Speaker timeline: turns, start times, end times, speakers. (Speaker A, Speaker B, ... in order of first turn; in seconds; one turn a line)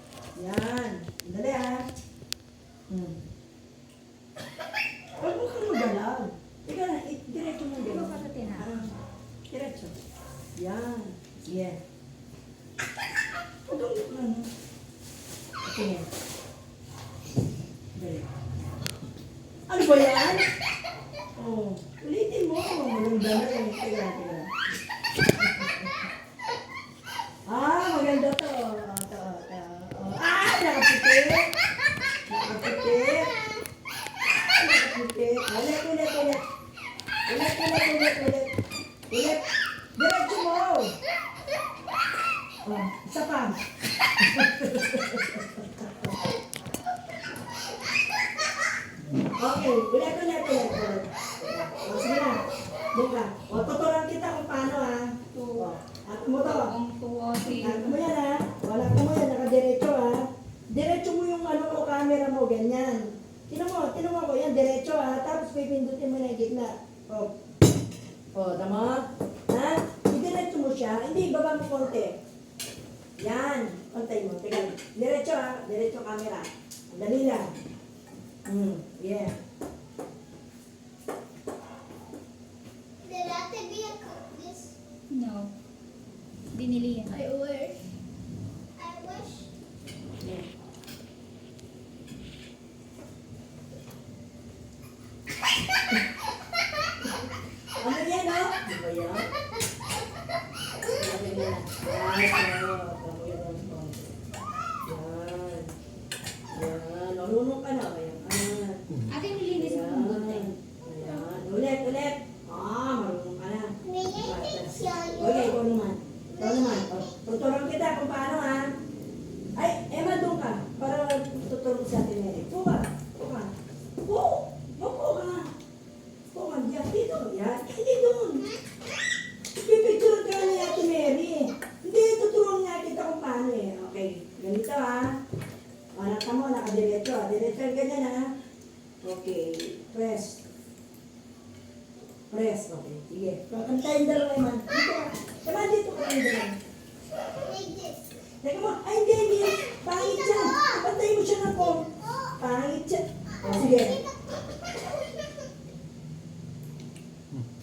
Speaker A: 0.3-1.9
Speaker A: 2.9-3.2
Speaker A: 5.2-8.9
Speaker B: 7.8-8.7
Speaker A: 9.5-9.9
Speaker A: 10.6-11.8
Speaker A: 13.7-14.5
Speaker A: 15.6-16.1
Speaker A: 18.0-18.2
Speaker A: 19.7-20.5
Speaker A: 21.4-24.5
Speaker A: 25.4-25.9
Speaker A: 27.5-31.5
Speaker A: 32.3-33.3
Speaker C: 33.0-33.6
Speaker A: 34.5-36.4
Speaker A: 37.3-38.5
Speaker A: 39.1-39.4
Speaker A: 40.0-40.9
Speaker A: 42.6-43.6
Speaker A: 44.2-46.1
Speaker A: 49.4-52.4
Speaker A: 52.9-56.7
Speaker B: 55.3-55.7
Speaker B: 56.4-58.0
Speaker A: 57.6-67.3
Speaker A: 68.3-72.1
Speaker A: 73.2-77.5
Speaker A: 78.5-79.3
Speaker C: 83.0-84.8
Speaker B: 85.1-85.5
Speaker B: 86.5-87.1
Speaker C: 87.1-87.8
Speaker C: 88.8-89.5
Speaker A: 90.2-90.5
Speaker A: 97.8-99.3
Speaker A: 100.9-104.1
Speaker A: 104.9-105.7
Speaker A: 106.5-108.8
Speaker B: 109.1-110.6
Speaker A: 109.6-118.7
Speaker C: 113.8-115.6
Speaker C: 116.3-117.0
Speaker A: 119.6-123.5
Speaker A: 124.0-125.5
Speaker A: 126.3-128.5
Speaker A: 129.6-135.2
Speaker A: 135.9-138.2
Speaker A: 139.0-140.4
Speaker A: 142.3-146.6
Speaker C: 147.4-148.2
Speaker A: 148.4-151.8
Speaker C: 149.9-150.9
Speaker C: 151.6-152.4
Speaker A: 152.4-153.9
Speaker C: 153.4-154.2